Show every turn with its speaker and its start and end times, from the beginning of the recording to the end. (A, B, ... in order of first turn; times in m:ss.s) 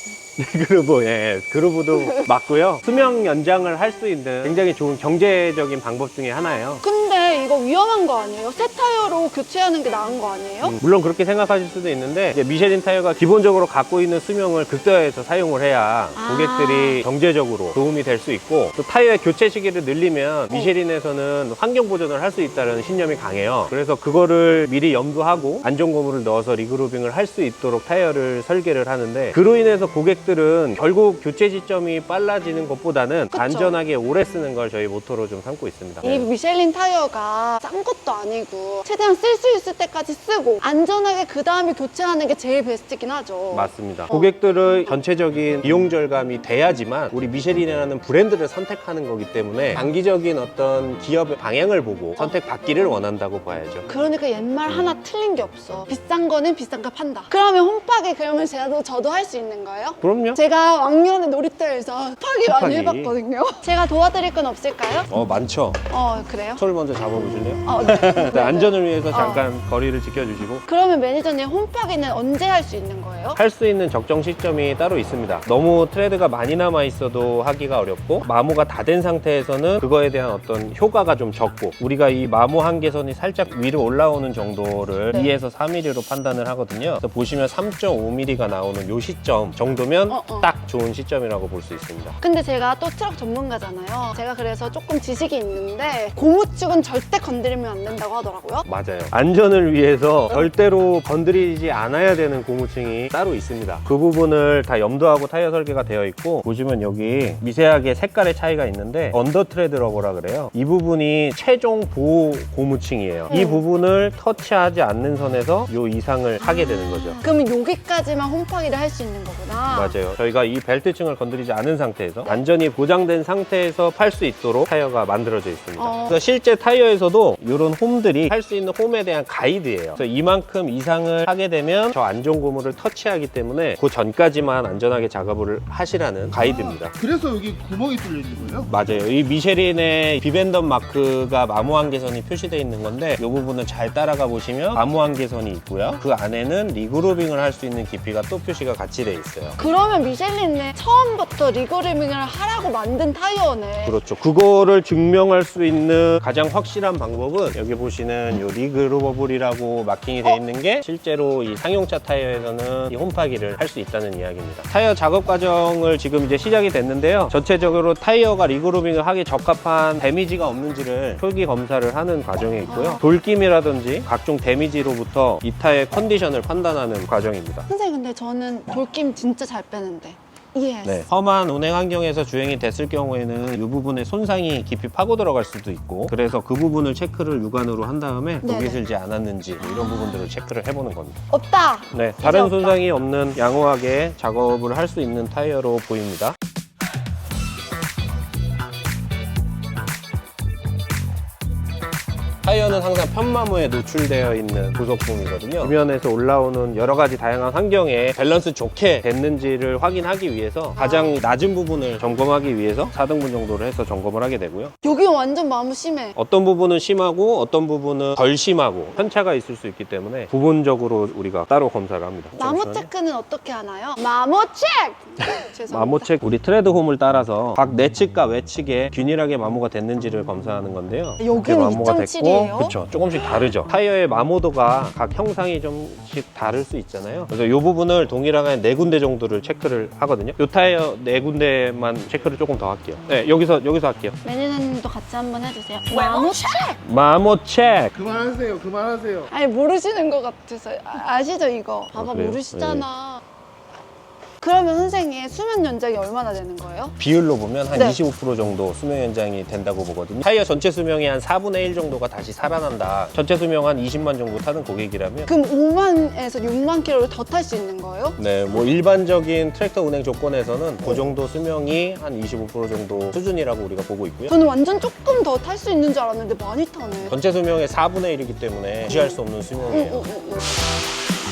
0:00.4-0:06.8 A
0:01.9-0:02.3 B
0:06.8-0:10.8 B
0:10.6-0:36.3 A
0:16.1-0:17.0 B
0:33.3-0:33.8 B
0:36.0-0:44.3 B
0:43.5-0:53.9 A
0:53.9-1:05.1 B
1:00.0-1:00.4 A
1:02.4-1:03.2 A
1:05.1-1:05.8 A
1:05.9-1:06.6 B
1:06.6-1:10.6 A
1:07.6-1:09.5 B
1:10.6-1:13.4 B
1:13.3-1:32.2 A
1:30.1-1:30.5 B
1:32.2-1:38.6 B
1:38.6-1:57.2 A
1:53.3-1:53.6 B
1:56.4-2:00.0 B
1:59.7-2:16.9 A
2:05.8-2:06.2 B
2:16.4-2:18.7 C
2:18.7-2:29.6 A
2:29.6-2:34.0 B
2:33.8-2:57.6 A
2:52.7-2:53.0 B
2:57.7-3:01.0 B
3:00.8-3:11.2 A
3:08.4-3:08.8 B
3:09.6-3:10.3 B
3:11.3-3:12.8 B
3:11.9-3:16.3 A
3:22.4-3:34.7 A
3:30.8-3:31.1 B
3:34.8-3:36.2 B
3:36.2-3:42.9 A
3:42.4-3:46.1 B
3:45.2-4:04.2 A
3:51.2-3:53.5 B
4:04.2-4:06.8 B
4:06.8-4:07.9 A
4:07.9-4:09.3 C
4:09.3-4:13.2 B
4:11.9-4:12.8 A
4:14.4-4:16.9 B
4:17.0-4:25.3 A
4:17.7-4:18.0 B
4:25.2-4:28.2 B
4:28.2-4:34.3 A
4:34.3-4:37.2 B
4:37.1-4:40.1 A
4:38.9-4:40.5 B